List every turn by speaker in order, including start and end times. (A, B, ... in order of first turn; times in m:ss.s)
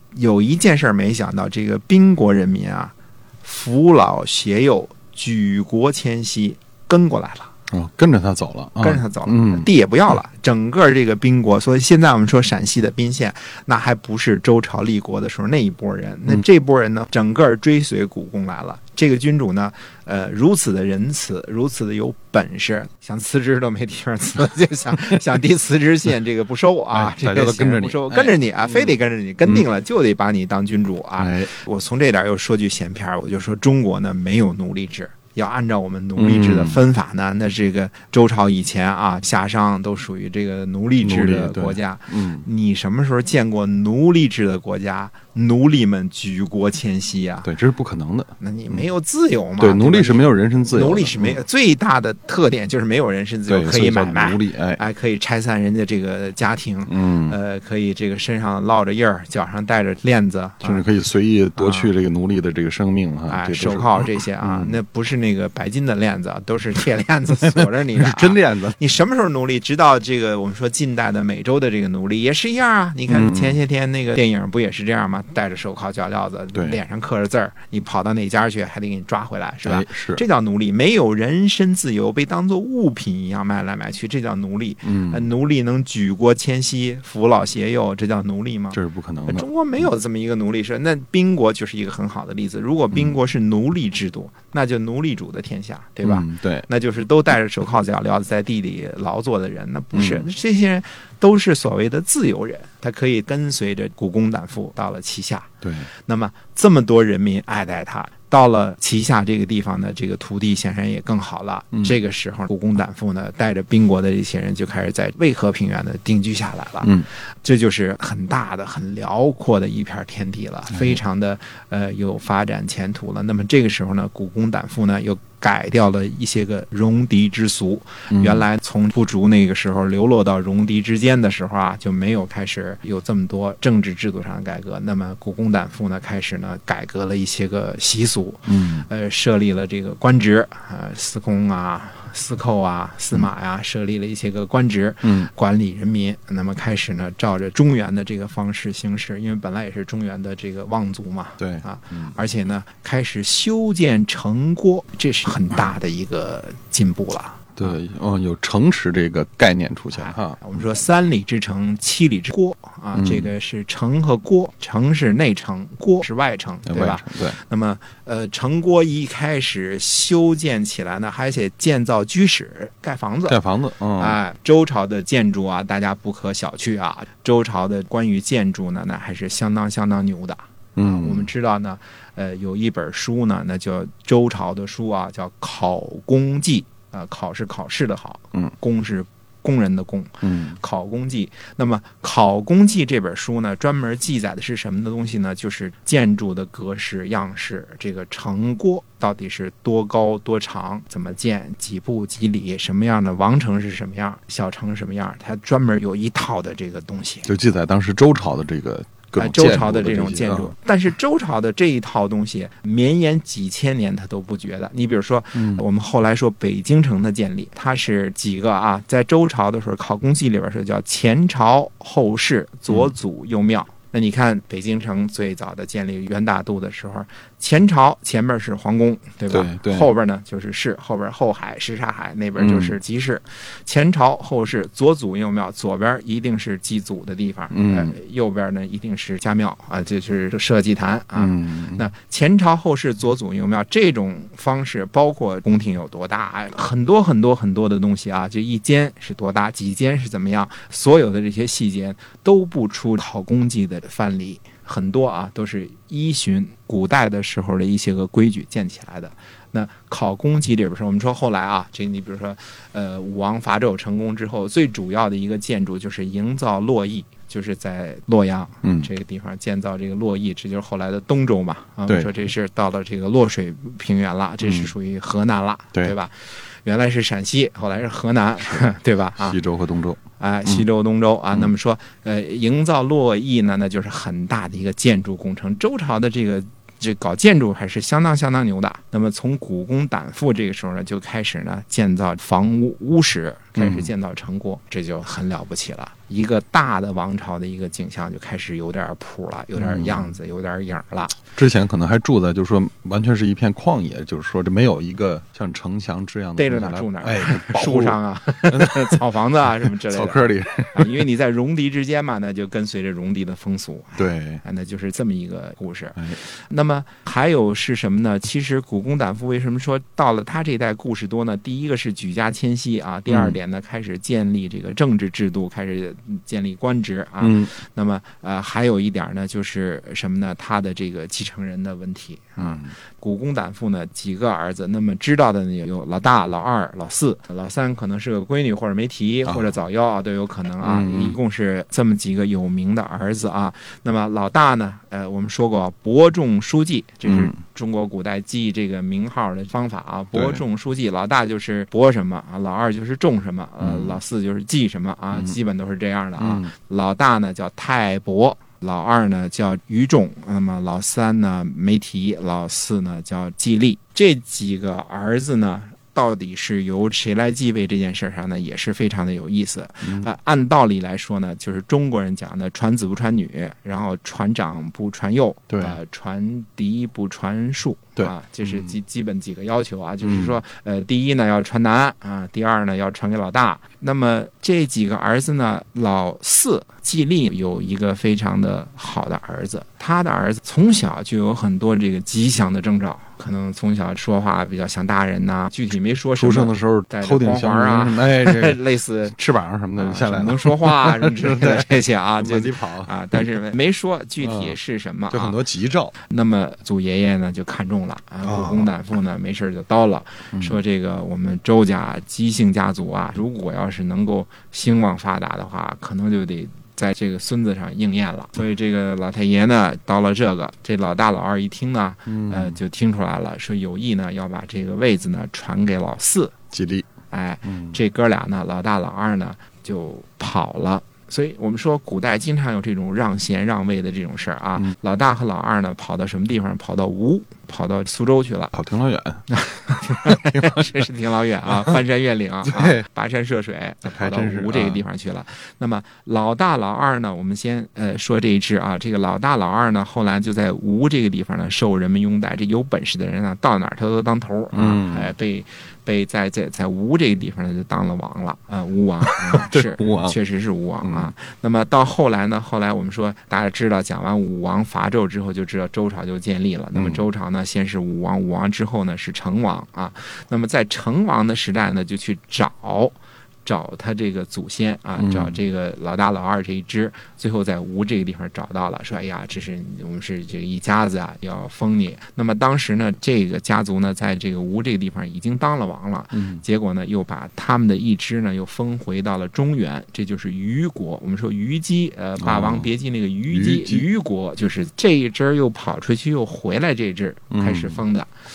0:00.1-0:07.5 A
0:07.7-0:09.7 B
0:08.8-0:47.5 A
0:26.9-0:28.9 B
0:31.2-0:31.5 B
0:36.2-0:36.8 B
0:41.0-0:42.4 B
0:47.4-0:48.8 B
0:48.4-1:00.8 A
0:49.6-0:51.4 B
0:53.5-0:54.8 B
0:56.8-0:57.4 B
1:00.6-1:04.8 B
1:01.6-1:01.9 A
1:03.3-1:45.5 A
1:07.4-1:08.8 B
1:13.1-1:13.6 B
1:16.5-1:16.8 B
1:19.6-1:20.2 B
1:24.8-1:25.3 B
1:28.7-1:29.4 B
1:36.0-1:36.7 B
1:39.9-1:40.2 B
1:45.6-1:45.9 B
1:46.0-2:37.8 A
2:08.1-2:08.4 B
2:18.5-2:18.9 B
2:25.0-2:25.3 B
2:31.4-2:32.2 B
2:37.6-2:40.4 B
2:39.9-2:53.4 A
2:42.9-2:43.3 B
2:46.6-2:47.4 B
2:53.3-2:54.2 B
2:54.0-3:27.3 A
3:00.8-3:01.3 B
3:10.2-3:10.6 B
3:27.2-3:30.5 B
3:29.2-4:39.4 A
3:35.3-3:35.6 B
3:49.3-3:49.9 B
3:52.4-3:52.7 B
3:57.5-3:57.9 B
4:01.2-4:01.8 B
4:28.6-4:28.9 B
4:34.4-4:34.7 B
4:39.2-4:40.6 B
4:40.2-5:01.2 A
4:53.6-4:53.9 B
4:59.6-5:00.1 B
5:01.3-5:08.0 B
5:06.4-6:39.1 A
5:08.5-5:09.0 B
5:09.6-5:11.0 B
5:14.0-5:14.4 B
5:23.1-5:23.4 B
5:27.2-5:27.5 B
5:32.4-5:32.7 B
5:39.2-5:39.5 B
5:40.6-5:41.2 B
5:47.0-5:47.4 B
5:50.1-5:50.4 B
5:53.6-5:54.0 B
5:56.2-5:56.5 B
6:09.8-6:10.1 B
6:15.5-6:15.8 B
6:18.0-6:18.7 B
6:20.0-6:20.4 B
6:36.2-6:43.3 B
6:39.8-6:45.4 A
6:44.2-6:44.5 B
6:45.1-6:45.9 B
6:46.0-7:06.3 A
6:48.2-6:48.7 B
6:50.3-6:50.6 B
7:02.1-7:02.6 B
7:06.5-7:06.9 B
7:07.1-7:18.5 A
7:07.4-7:07.8 B
7:18.5-7:19.2 B
7:19.3-8:18.1 A
7:20.0-7:20.7 B
7:21.5-7:21.8 B
7:22.4-7:22.8 B
7:23.8-7:24.8 B
7:34.5-7:35.1 B
7:39.0-7:40.2 B
7:40.8-7:41.1 B
7:46.7-7:47.0 B
7:55.0-7:55.4 B
8:06.1-8:06.4 B
8:12.2-8:12.7 B
8:13.3-8:13.8 B
8:17.3-8:17.8 B